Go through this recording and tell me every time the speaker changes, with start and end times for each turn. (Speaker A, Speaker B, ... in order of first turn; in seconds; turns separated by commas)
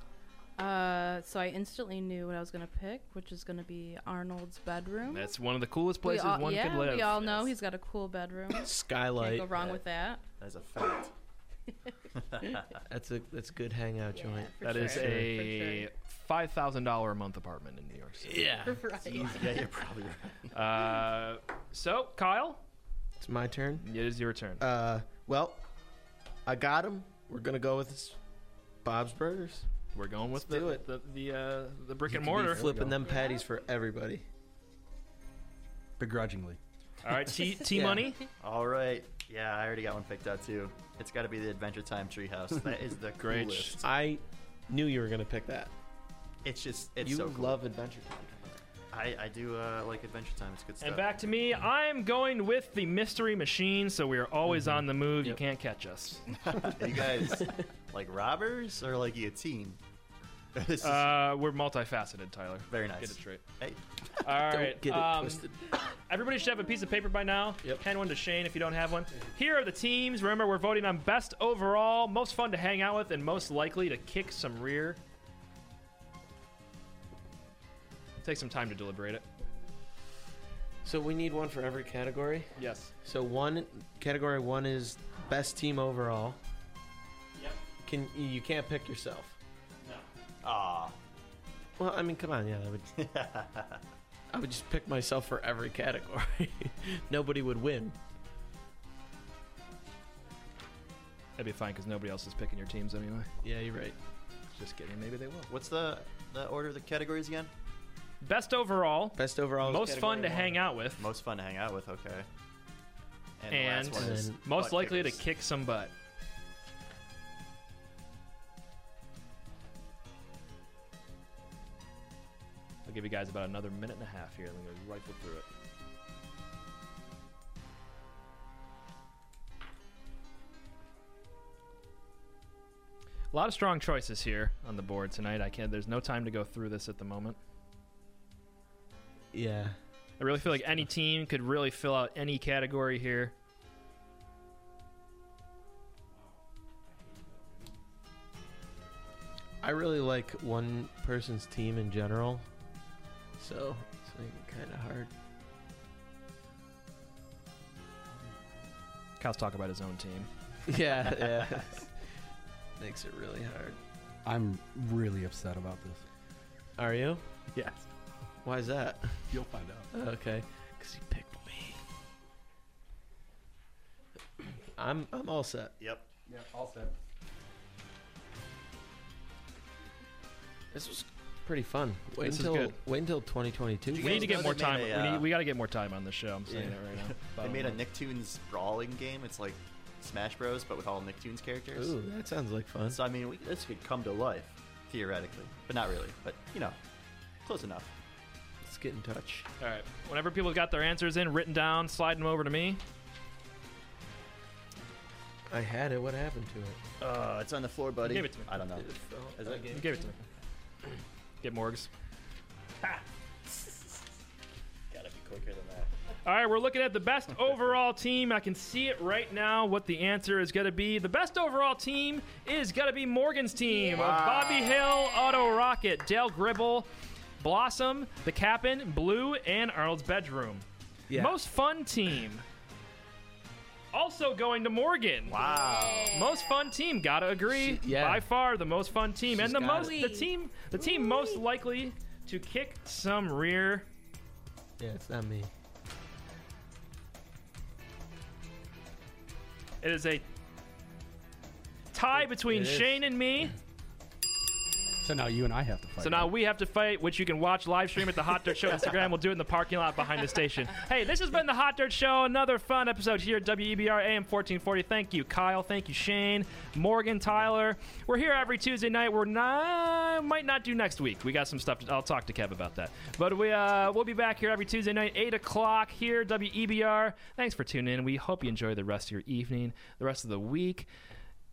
Speaker A: 0.6-5.3, Speaker B: 5.1-7.5, Speaker A: 6.0-10.2, Speaker C: 8.5-9.5, Speaker D: 10.4-11.1, Speaker D: 12.2-12.8, Speaker C: 12.8-15.3, Speaker A: 14.1-15.9, Speaker B: 14.6-18.6, Speaker C: 18.2-18.8, Speaker A: 18.6-19.6, Speaker D: 18.9-20.5, Speaker B: 20.5-22.6, Speaker C: 23.2-23.8, Speaker B: 23.8-24.6, Speaker C: 24.6-25.6, Speaker C: 26.4-28.2, Speaker C: 28.8-29.7, Speaker B: 29.9-32.6, Speaker C: 30.4-30.8, Speaker C: 32.1-34.2, Speaker E: 32.3-33.1, Speaker A: 33.0-33.4, Speaker E: 36.0-36.6, Speaker B: 37.0-38.2, Speaker C: 37.7-38.1, Speaker D: 38.4-43.8, Speaker B: 43.2-43.8, Speaker C: 43.8-45.7, Speaker D: 46.4-47.6, Speaker C: 47.0-48.3, Speaker D: 48.9-51.2, Speaker B: 50.8-56.2, Speaker D: 56.3-59.8, Speaker D: 60.5-61.1, Speaker B: 60.8-63.4, Speaker D: 62.7-63.8, Speaker B: 64.2-65.4, Speaker C: 64.5-65.7, Speaker B: 66.1-75.0, Speaker B: 78.2-79.2, Speaker C: 80.8-86.4, Speaker B: 82.5-82.9, Speaker C: 87.8-89.4, Speaker D: 90.4-90.9, Speaker C: 91.8-92.9, Speaker D: 93.0-93.8, Speaker C: 94.3-98.0, Speaker B: 101.4-103.3, Speaker C: 103.4-104.0, Speaker B: 104.5-105.5, Speaker D: 105.5-107.5, Speaker B: 108.2-111.1, Speaker C: 109.2-110.6, Speaker D: 111.0-112.3, Speaker D: 113.4-115.2, Speaker B: 113.5-115.9, Speaker C: 113.9-114.4, Speaker B: 122.8-125.5, Speaker B: 133.3-137.4, Speaker C: 139.3-139.7, Speaker B: 140.2-143.3, Speaker C: 149.6-152.4, Speaker C: 153.4-155.1, Speaker B: 159.2-160.3, Speaker C: 160.7-161.9, Speaker C: 162.8-163.8, Speaker E: 164.2-166.0, Speaker C: 166.8-167.2, Speaker C: 168.4-169.3, Speaker E: 169.3-169.9, Speaker C: 169.9-171.8, Speaker C: 174.8-175.7, Speaker D: 175.8-176.0, Speaker E: 176.3-176.9, Speaker C: 180.7-184.7, Speaker B: 182.2-182.8, Speaker D: 183.9-185.3, Speaker B: 184.0-187.3, Speaker C: 186.5-186.8, Speaker D: 187.2-191.9, Speaker C: 187.4-187.7, Speaker C: 191.7-193.0, Speaker D: 192.9-196.8, Speaker D: 197.4-197.9, Speaker C: 198.6-199.4, Speaker B: 199.6-202.8, Speaker C: 205.5-206.8, Speaker D: 207.0-209.8, Speaker B: 208.0-208.5, Speaker C: 208.7-209.9, Speaker B: 209.7-210.2, Speaker B: 211.4-211.9, Speaker D: 214.9-215.9, Speaker B: 216.2-226.9, Speaker A: 223.7-224.2, Speaker D: 223.9-224.7, Speaker A: 225.0-225.6, Speaker B: 227.4-232.4, Speaker C: 231.1-231.4, Speaker B: 233.9-235.5, Speaker D: 235.3-236.1, Speaker A: 235.3-236.7, Speaker B: 236.0-243.9, Speaker C: 237.5-238.3, Speaker C: 239.3-240.0, Speaker A: 239.7-240.3, Speaker A: 240.8-241.4, Speaker C: 244.8-245.5, Speaker B: 249.8-250.2, Speaker B: 251.9-253.5, Speaker C: 252.3-253.0, Speaker E: 255.0-256.3, Speaker B: 256.0-280.9